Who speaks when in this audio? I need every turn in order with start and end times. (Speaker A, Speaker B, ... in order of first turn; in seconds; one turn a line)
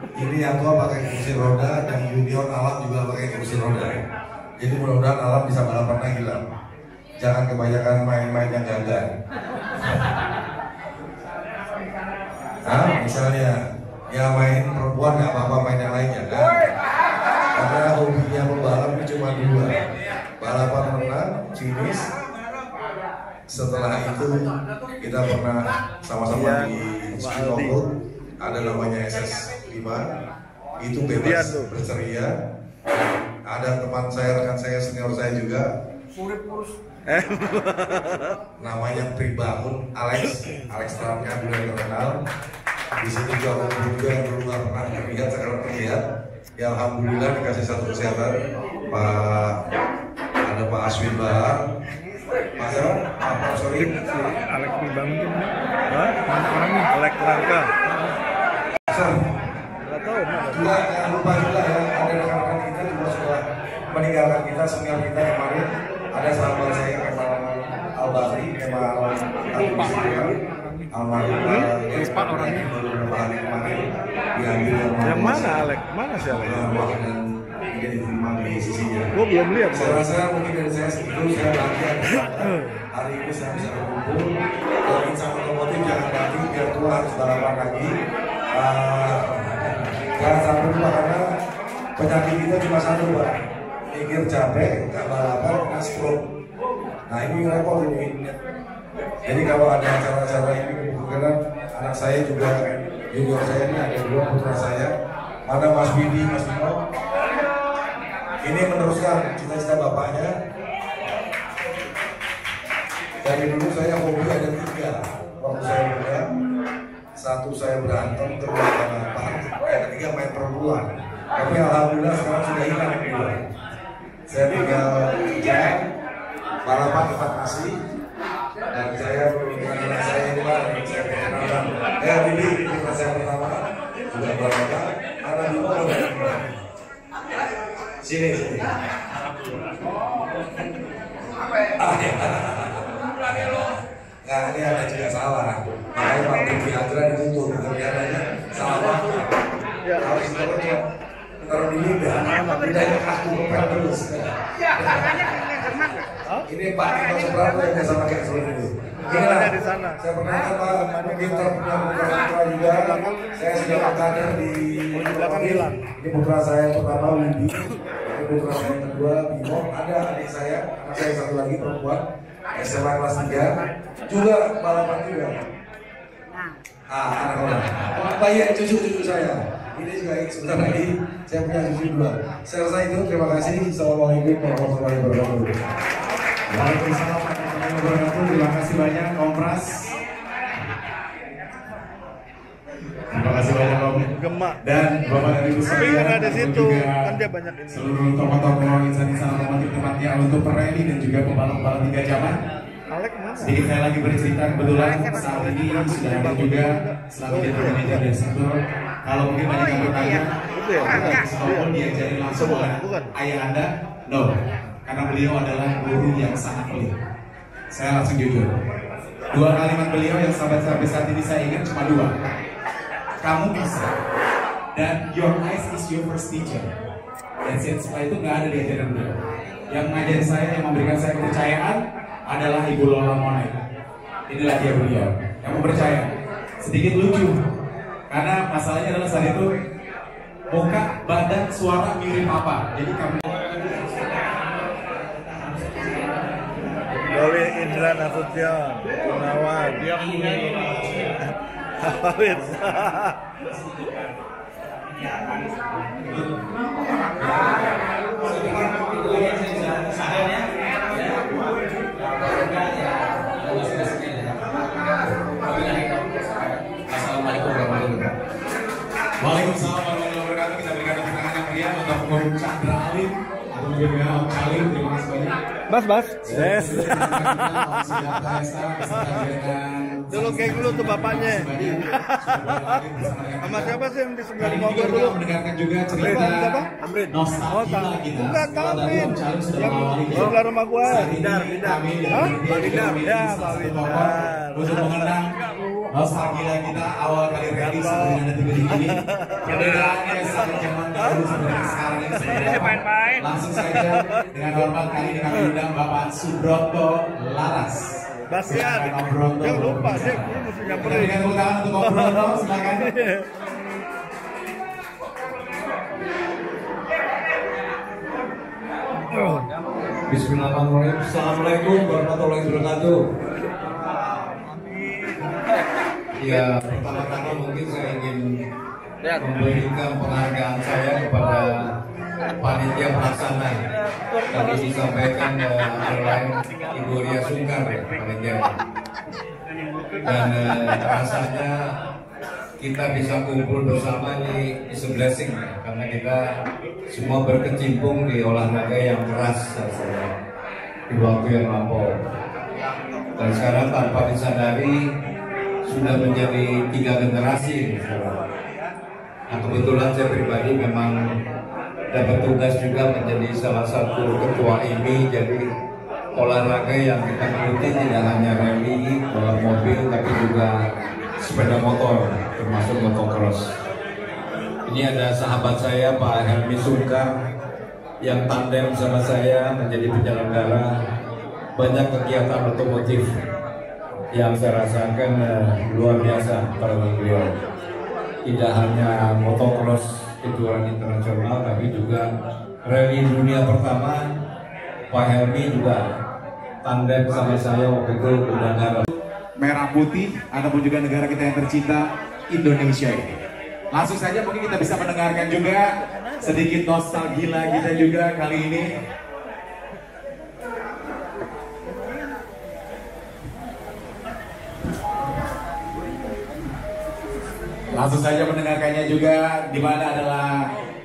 Speaker A: 0.1-4.0
Speaker A: 4.6-6.4
Speaker A: 7.2-9.1
Speaker A: 12.6-13.6
Speaker A: 14.1-16.6
Speaker A: 17.5-19.8
Speaker A: 20.4-22.1
Speaker A: 23.5-24.5
Speaker A: 25.0-27.9
Speaker B: 26.3-27.8
Speaker A: 28.4-30.1
Speaker A: 30.8-32.3
Speaker B: 31.2-31.7
Speaker A: 33.5-35.7
Speaker B: 37.0-38.4
Speaker A: 38.6-42.2
Speaker A: 43.0-46.0
Speaker A: 46.6-48.4
Speaker A: 48.9-49.5
Speaker A: 50.4-51.6
Speaker A: 52.6-54.0
Speaker B: 53.7-57.7
Speaker A: 58.9-59.1
Speaker B: 59.8-60.7
Speaker A: 60.5-70.3
Speaker A: 70.9-73.8
Speaker B: 71.4-71.7
Speaker A: 74.3-75.6
Speaker B: 75.0-76.7
Speaker A: 76.3-77.2
Speaker A: 77.7-79.1
Speaker B: 79.1-80.0
Speaker A: 79.7-84.3
Speaker A: 84.8-87.9
Speaker A: 88.5-91.2
Speaker A: 92.0-93.3
Speaker A: 93.9-96.2
Speaker A: 97.1-98.3
Speaker A: 99.2-102.5
Speaker A: 103.1-104.9
Speaker A: 105.5-106.8
Speaker A: 108.4-110.3
Speaker A: 113.2-116.3
Speaker A: 117.2-123.4
Speaker A: 124.3-125.7
Speaker A: 126.6-127.7
Speaker A: 128.7-136.4
Speaker A: 138.0-138.7
Speaker A: 141.8-143.7
Speaker A: 144.2-149.3
Speaker B: 149.8-150.2
Speaker A: 150.0-150.8
Speaker A: 151.4-155.2
Speaker B: 152.2-152.9
Speaker A: 156.4-172.0
Speaker B: 159.1-162.1
Speaker B: 162.7-164.0
Speaker B: 164.9-165.8
Speaker A: 172.5-173.5
Speaker A: 174.1-175.4
Speaker A: 176.9-185.5
Speaker C: 186.5-189.7
Speaker C: 193.1-194.1
Speaker B: 194.1-194.6
Speaker C: 194.6-197.1
Speaker B: 195.6-198.2
Speaker C: 197.7-202.4
Speaker B: 202.9-203.7
Speaker C: 203.4-214.3
Speaker B: 204.6-208.0
Speaker B: 209.6-211.7
Speaker B: 212.2-213.1
Speaker C: 214.9-216.9
Speaker C: 217.7-218.5
Speaker C: 219.3-222.1
Speaker C: 223.2-223.9
Speaker C: 224.7-226.6
Speaker C: 227.4-229.1
Speaker C: 229.7-231.8
Speaker C: 232.3-233.5
Speaker C: 234.3-236.1
Speaker C: 236.6-237.3
Speaker C: 238.1-239.4
Speaker C: 240.5-243.2
Speaker B: 247.1-250.0
Speaker B: 251.8-253.1
Speaker D: 257.2-261.3
Speaker D: 262.0-264.5
Speaker D: 265.4-268.1
Speaker C: 269.2-275.3
Speaker B: 275.7-277.5
Speaker C: 276.2-283.8
Speaker B: 280.1-282.8
Speaker B: 283.4-285.2
Speaker C: 284.4-295.3
Speaker B: 285.9-295.2
Speaker C: 295.9-307.9
Speaker B: 297.6-301.6
Speaker B: 302.1-302.8
Speaker B: 303.4-304.1
Speaker B: 305.3-305.6
Speaker B: 308.3-313.2
Speaker C: 308.4-312.9
Speaker B: 319.1-319.5
Speaker E: 320.1-323.0
Speaker E: 326.2-328.2
Speaker E: 329.2-331.6
Speaker E: 332.4-333.6
Speaker E: 334.3-338.5
Speaker E: 340.0-341.6
Speaker E: 342.6-346.2
Speaker E: 346.9-350.1
Speaker E: 350.9-351.9
Speaker E: 353.2-354.8
Speaker E: 355.7-358.2
Speaker E: 359.3-361.0
Speaker E: 361.9-365.4
Speaker E: 366.1-370.5
Speaker E: 371.2-373.4
Speaker E: 374.7-377.1
Speaker E: 378.0-380.7
Speaker E: 381.6-383.1
Speaker E: 384.1-387.3
Speaker E: 388.2-392.1
Speaker E: 392.6-394.0
Speaker E: 394.9-395.8
Speaker E: 396.6-398.8
Speaker C: 399.4-403.2
Speaker C: 403.7-405.6
Speaker C: 406.2-408.6
Speaker C: 417.7-420.5